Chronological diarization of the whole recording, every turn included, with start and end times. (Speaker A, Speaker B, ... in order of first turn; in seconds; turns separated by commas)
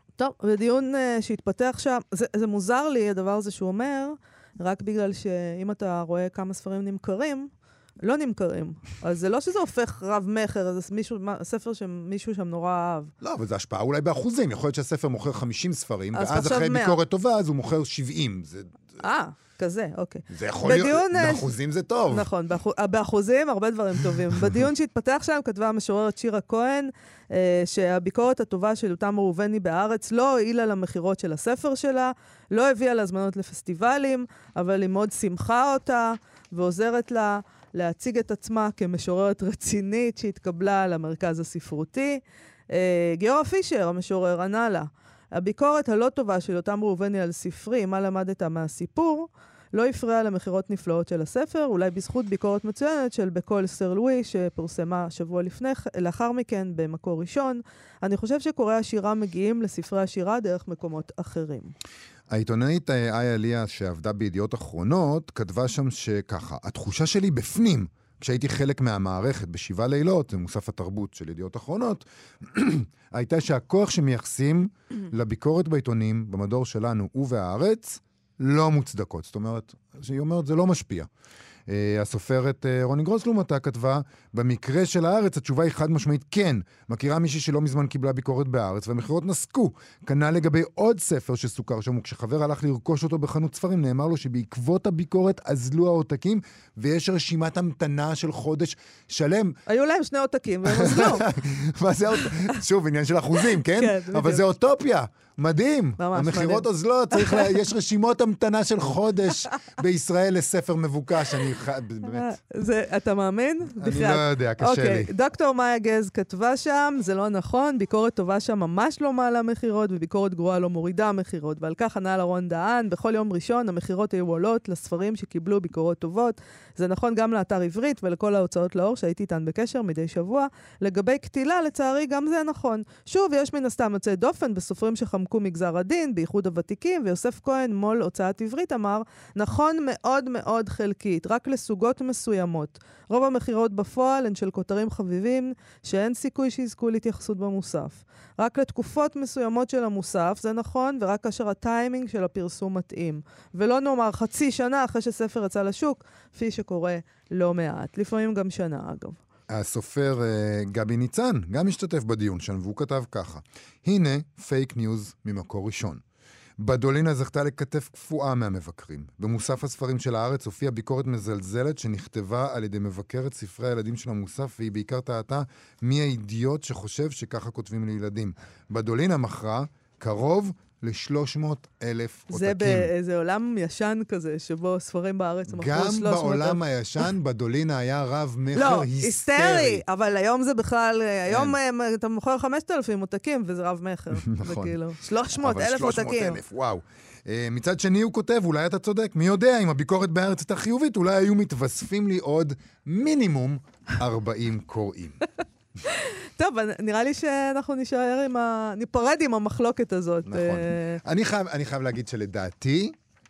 Speaker A: 0.2-7.5, Speaker A: 8.0-13.1, Speaker B: 13.2-18.9, Speaker A: 16.1-17.0, Speaker A: 19.0-21.4, Speaker B: 20.3-22.3, Speaker A: 22.1-61.7, Speaker B: 62.3-81.1, Speaker B: 81.7-99.6, Speaker A: 99.7-101.3, Speaker B: 100.6-112.3, Speaker A: 102.2-102.5, Speaker A: 103.6-104.4, Speaker A: 106.0-107.5, Speaker A: 112.0-159.2, Speaker B: 113.8-115.1, Speaker B: 159.5-166.0, Speaker B: 166.6-182.9, Speaker A: 182.3-186.6, Speaker B: 185.5-189.8, Speaker A: 188.5-196.4, Speaker B: 191.3-191.6, Speaker B: 194.2-205.2, Speaker A: 205.9-211.0, Speaker B: 210.3-212.9